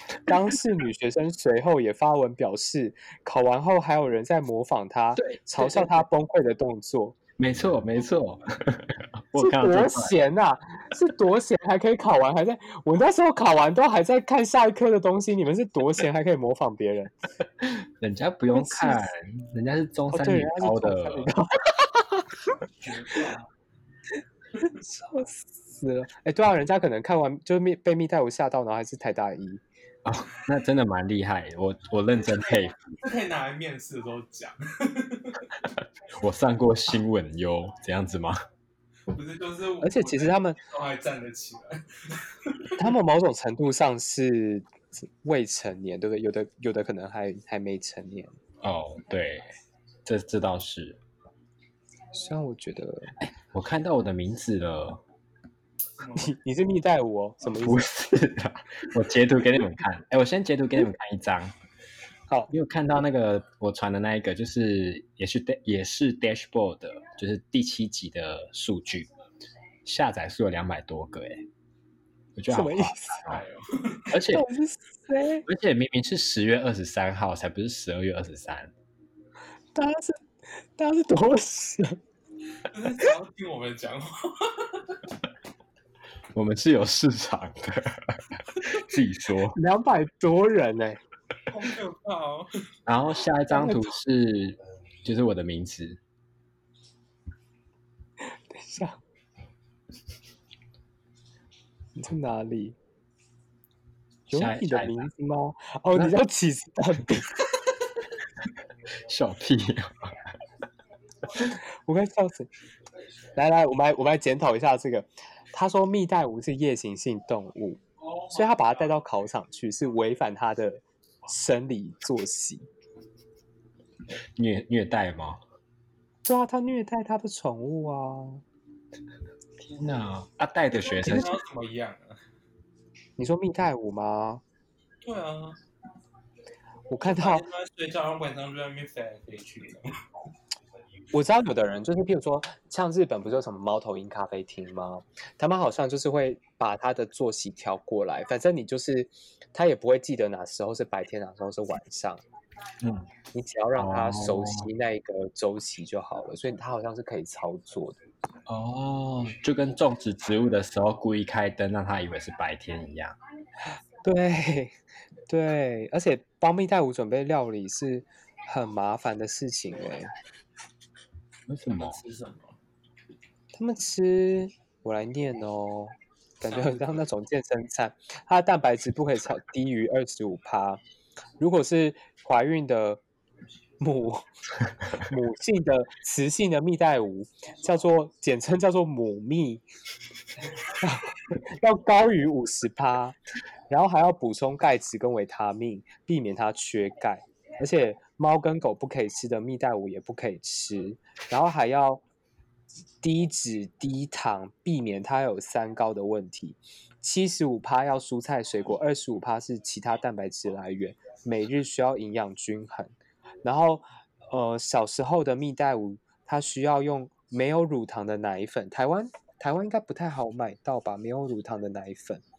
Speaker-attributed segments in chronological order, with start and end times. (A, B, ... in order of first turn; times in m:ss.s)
0:00.2-0:07.2 A
0:05.2-0:05.9 B
0:07.4-0:10.2 B
0:09.3-0:17.1 A
0:17.6-0:21.3 B
0:18.5-0:19.1 A
0:20.1-0:22.4 A
0:22.8-0:23.4 C
0:24.6-0:29.6 A
0:30.0-0:33.0 B
0:33.0-0:35.4 C
0:36.1-0:38.4 B
0:39.1-0:42.8 C
0:39.8-0:40.6 A
0:42.8-0:48.4 A
0:48.6-0:49.5 B
0:50.0-0:51.0 B
0:52.1-0:53.2 A
0:53.2-0:55.0 B
0:56.0-0:56.3 C
0:56.1-0:57.9 A
0:57.5-1:01.5 B
1:02.5-1:09.1 B
1:09.8-1:11.5 B
1:12.4-1:13.4 B
1:12.5-1:13.2 A
1:13.2-1:14.0 C
1:14.1-1:14.5 B
1:14.3-1:15.4 A
1:15.4-1:18.7 B
1:19.7-1:20.2 A
1:20.8-1:22.0 A
1:22.7-1:24.8 C
1:26.3-1:29.6 B
1:29.5-1:31.0 A
1:31.5-1:32.5 C
1:32.8-1:36.0 B
1:33.5-1:33.9 A
1:38.5-1:39.0 A
1:42.0-1:42.8 A
1:44.3-1:45.1 B
1:44.3-1:47.4 A
1:49.0-1:50.2 B
1:51.3-1:52.5 A
1:53.3-2:02.7 A
2:04.4-2:05.4 B
2:06.2-2:08.4 A
2:09.6-2:11.3 B
2:10.9-2:12.2 C
2:11.0-2:11.3 A
2:13.2-2:14.4 A
2:15.0-2:15.6 C
2:16.9-2:17.5 A
2:17.0-2:20.0 C
2:21.1-2:32.2 A
2:32.8-2:33.1 B
2:33.3-2:38.0 A
2:33.8-2:34.7 B
2:38.5-2:43.2 B
2:44.0-2:50.1 A
2:51.5-2:52.0 B
2:51.7-2:52.6 C
2:53.5-3:00.8 A
2:56.5-2:56.8 C
3:01.4-3:03.0 A
3:03.8-3:04.2 A
3:05.0-3:09.6 A
3:10.6-3:13.2 A
3:13.7-3:22.0 A
3:23.0-3:42.2 A